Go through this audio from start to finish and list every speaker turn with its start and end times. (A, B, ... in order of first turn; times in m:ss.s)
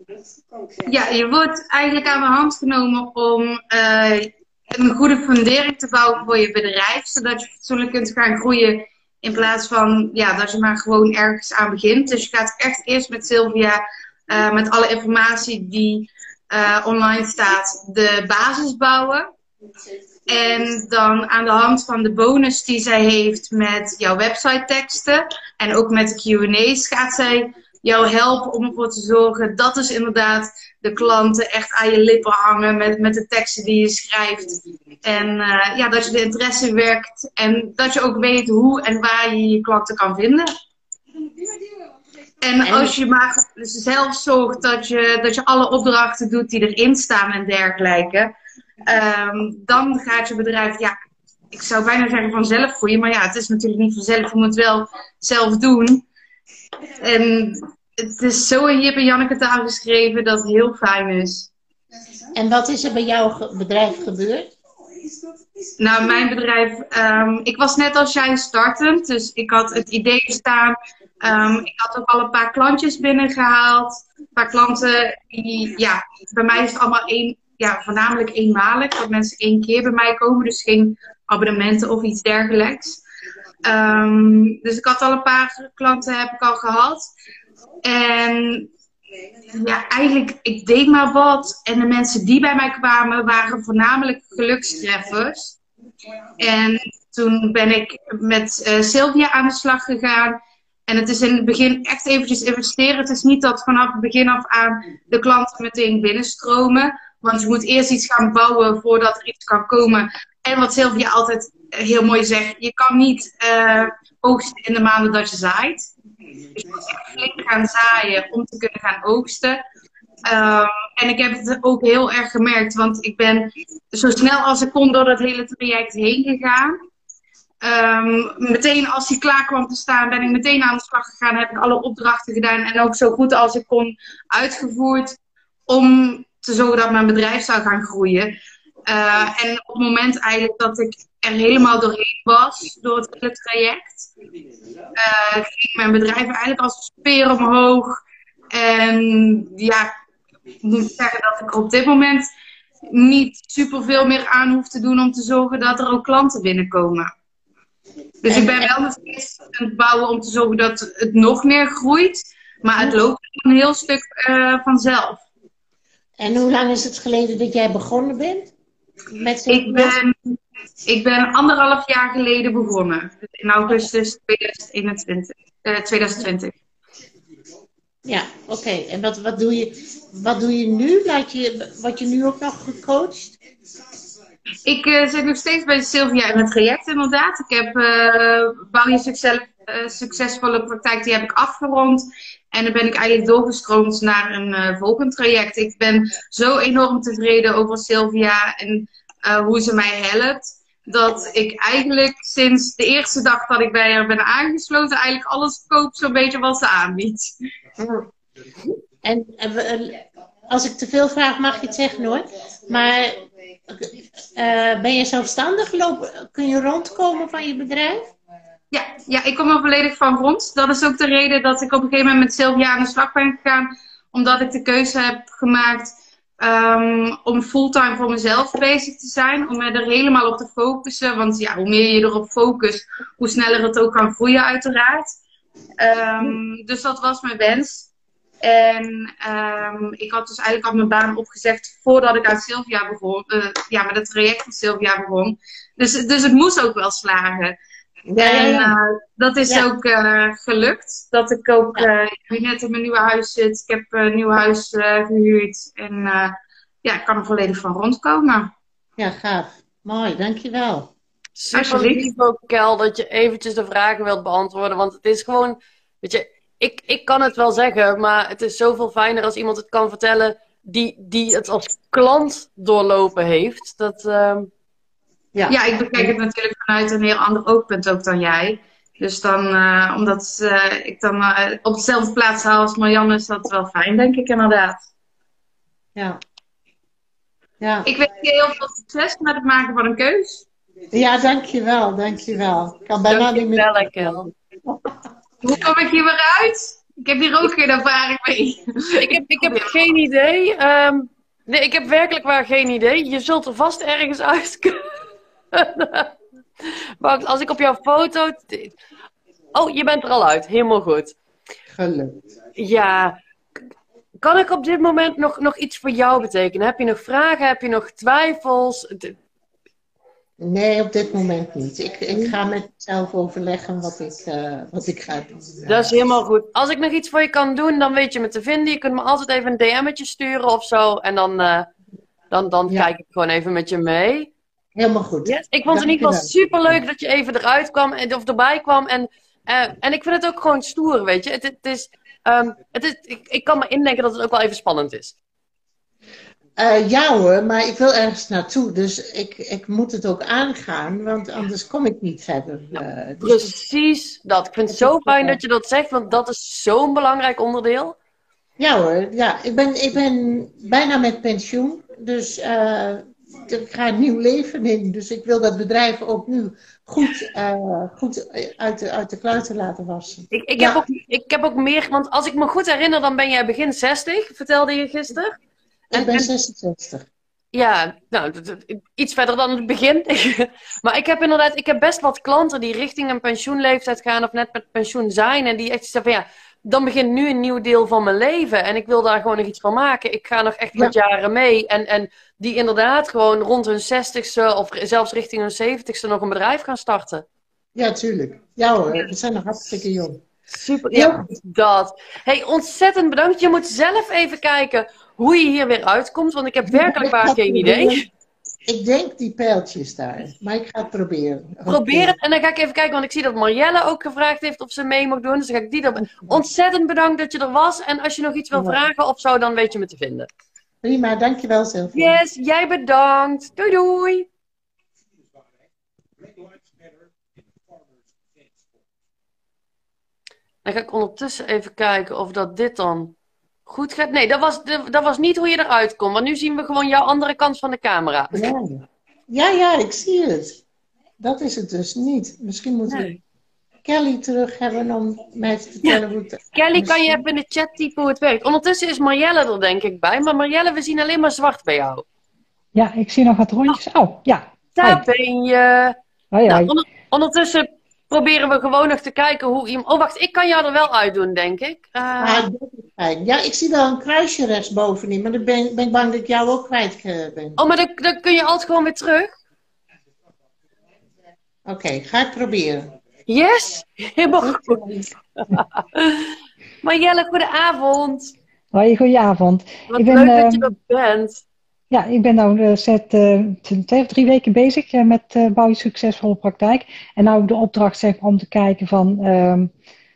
0:00.8-0:19.3 A
0:20.3-0:40.5 A
0:42.4-0:48.3 A
0:42.6-0:43.0 B
0:48.8-0:51.0 A
0:51.5-0:56.0 A
0:57.0-1:01.5 A
1:02.3-1:04.5 B
1:05.8-1:23.0 A
1:23.6-1:27.1 A
1:27.8-1:28.7 A
1:29.5-1:35.6 A
1:36.4-1:55.9 A
1:56.5-1:59.6 A
2:00.2-2:06.8 A
2:07.6-2:18.3 A
2:18.8-2:24.1 A
2:24.9-2:28.0 A
2:28.5-2:29.9 A
2:30.6-2:32.3 A
2:32.9-2:37.1 A
2:38.2-2:45.2 A
2:38.3-2:38.7 B
2:46.2-2:48.5 B
2:49.1-2:50.0 B
2:49.5-2:50.3 A
2:50.8-2:56.5 A
2:58.0-3:03.4 B
3:04.6-3:27.3 A
3:27.8-3:28.1 B
3:29.0-3:38.1 B
3:38.7-3:55.2 A
3:55.8-3:57.9 A
3:58.4-4:07.6 A
4:08.1-4:08.8 B
4:08.2-4:18.5 A
4:19.0-4:20.9 B
4:21.4-4:34.5 C
4:21.5-4:22.0 A
4:35.3-4:36.1 B
4:35.5-4:44.8 A
4:45.9-4:46.2 B
4:47.6-4:47.9 B
4:47.8-4:50.4 A
4:50.9-4:54.8 B
4:53.1-4:54.3 C
4:55.4-4:59.8 A
4:58.9-5:04.8 C
5:05.5-5:06.1 C
5:06.6-5:08.8 C
5:09.5-5:11.1 C
5:11.7-5:12.2 B
5:12.6-5:13.2 C
5:14.2-5:19.1 C
5:20.4-5:26.1 B
5:25.7-5:31.7 C
5:32.3-5:34.3 C
5:34.8-5:36.8 B
5:35.2-5:45.2 C
5:46.6-5:53.5 B
5:52.7-5:58.0 C
5:54.7-5:55.4 B
5:58.6-6:10.8 B
6:10.3-6:15.3 C
6:15.9-6:17.1 B
6:15.9-6:16.3 C
6:17.5-6:37.2 C
6:37.8-6:40.2 B
6:40.5-6:48.0 C
6:40.9-6:41.2 B
6:46.7-6:48.1 B
6:48.6-6:52.2 B
6:51.6-7:00.3 C
6:58.5-6:58.8 B
7:00.8-7:02.2 B
7:01.9-7:04.3 C
7:10.6-7:13.1 C
7:13.7-7:18.5 C
7:18.3-7:20.6 B
7:21.2-7:23.1 B
7:22.9-7:23.2 C
7:23.8-7:27.2 B
7:26.5-7:32.0 C
7:32.7-7:35.0 D
7:34.8-7:36.0 C
7:36.3-7:36.7 D
7:36.5-7:42.5 C
7:42.2-7:47.6 B
7:47.6-7:49.3 C
7:51.6-7:52.9 B
7:53.3-7:54.9 C
7:54.3-7:55.1 B
7:55.4-7:58.3 C
7:58.7-8:00.7 D
7:59.9-8:01.4 C
8:01.9-8:09.7 D